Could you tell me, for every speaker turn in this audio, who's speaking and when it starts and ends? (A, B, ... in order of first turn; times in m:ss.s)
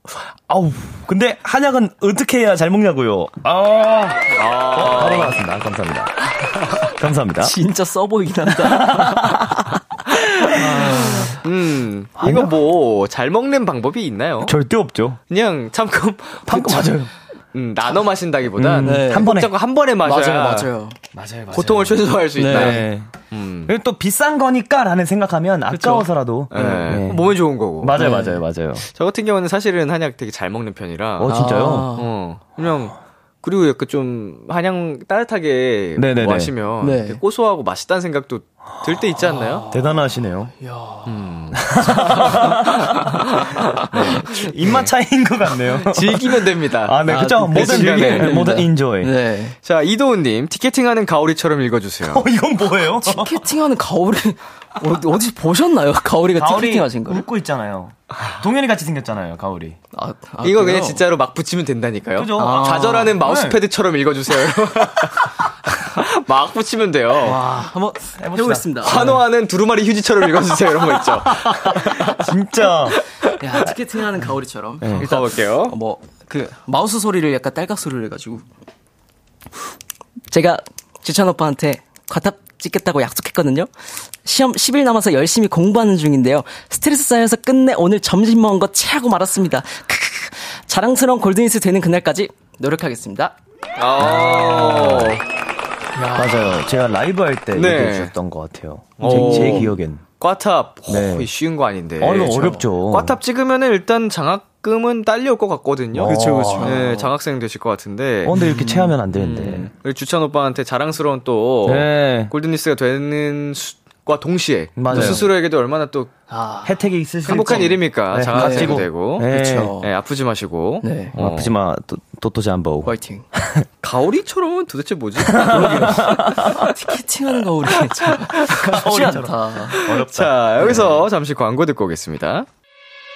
0:00.5-0:07.6 A
0:04.3-0:05.4 B
0:07.4-0:09.5 C
0:08.5-0:11.1 A
0:10.5-0:11.4 C
0:10.6-0:14.5 B
0:12.2-0:12.5 A
0:14.4-0:15.2 A
0:15.3-0:17.0 B
0:16.4-0:17.1 A
0:17.5-0:20.7 B
0:18.6-0:19.5 A
0:18.8-0:19.3 C
0:20.0-0:21.0 C
0:21.1-0:23.1 A
0:21.5-0:23.7 B
0:22.4-0:22.8 C
0:23.6-0:28.9 A
0:25.7-0:26.8 C
0:26.5-0:28.1 B
0:28.0-0:28.4 C
0:28.8-0:31.4 B
0:31.2-0:31.9 A
0:31.3-0:32.1 C
0:32.0-0:39.6 B
0:36.0-0:36.5 A
0:36.8-0:37.2 C
0:39.2-0:39.9 C
0:39.7-0:40.5 A
0:40.6-0:43.0 C
0:41.0-0:44.9 B
0:41.5-0:43.2 A
0:43.8-0:49.1 A
0:43.9-0:44.3 C
0:45.9-0:48.4 B
0:47.1-0:49.6 C
0:49.6-0:52.2 B
0:52.0-0:53.4 A
0:53.0-0:57.2 C
0:56.3-0:59.8 A
0:59.9-1:01.0 C
1:00.4-1:07.4 B
1:02.1-1:03.6 A
1:02.4-1:03.1 C
1:07.2-1:09.0 C
1:08.2-1:09.2 A
1:08.8-1:12.3 B
1:11.7-1:13.0 A
1:12.9-1:13.3 B
1:13.4-1:18.4 C
1:14.8-1:15.2 A
1:15.0-1:15.7 B
1:20.3-1:23.7 C
1:24.2-1:33.3 C
1:33.8-1:35.2 B
1:34.0-1:35.2 A
1:36.0-1:36.6 C
1:36.1-1:40.0 A
1:37.5-1:38.1 B
1:39.0-1:48.4 B
1:39.0-1:39.7 C
1:40.9-1:41.3 A
1:42.0-1:43.2 A
1:42.1-1:42.6 C
1:45.9-1:46.8 A
1:46.0-1:47.1 C
1:48.2-1:49.7 A
1:48.3-1:48.9 C
1:49.1-1:56.1 B
1:51.6-1:52.3 A
1:54.8-1:55.3 A
1:54.9-1:55.2 C
1:56.3-1:56.7 C
1:56.6-1:59.7 A
1:57.2-2:01.5 B
1:57.4-1:57.7 C
1:58.3-1:59.9 C
2:00.8-2:01.1 C
2:01.2-2:03.7 A
2:02.8-2:03.2 C
2:03.8-2:05.9 B
2:05.2-2:06.7 A
2:05.4-2:09.8 C
2:06.5-2:06.9 B
2:07.6-2:08.9 B
2:08.5-2:10.7 A
2:09.7-2:12.5 B
2:10.6-2:11.0 C